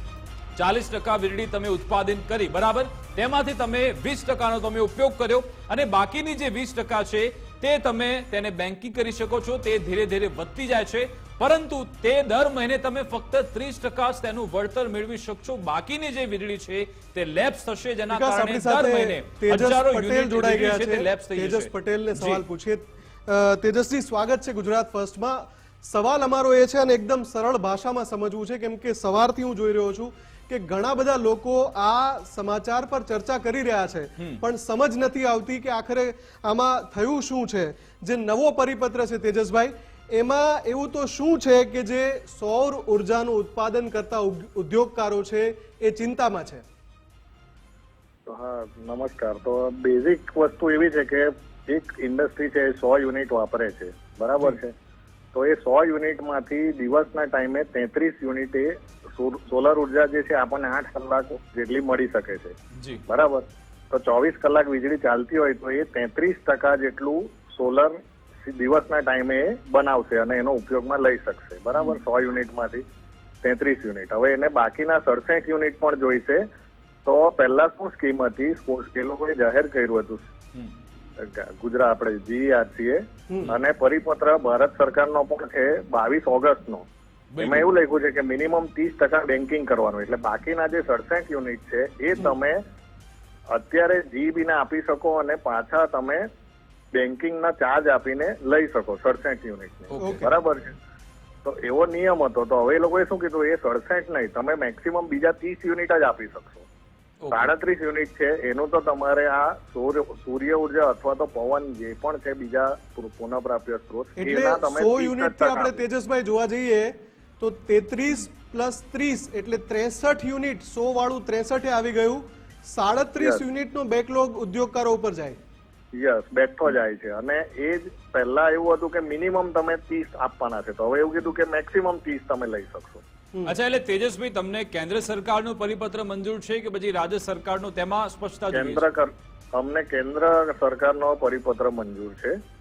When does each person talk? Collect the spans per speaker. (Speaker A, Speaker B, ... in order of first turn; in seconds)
Speaker A: 0.6-22.4, 62.8-63.0, 87.3-87.7, 99.9-100.3, 107.2-107.5, 133.5-138.8
Speaker B: 18.1-46.6, 100.0-100.3, 114.2-125.4
Speaker C: 48.3-54.7, 55.3-62.6, 63.1-72.8, 73.4-76.4, 77.0-80.3, 81.2-86.9, 87.4-92.6, 93.5-96.2, 96.9-100.7, 101.4-106.7, 107.3-115.8, 126.0-133.0, 138.5-142.3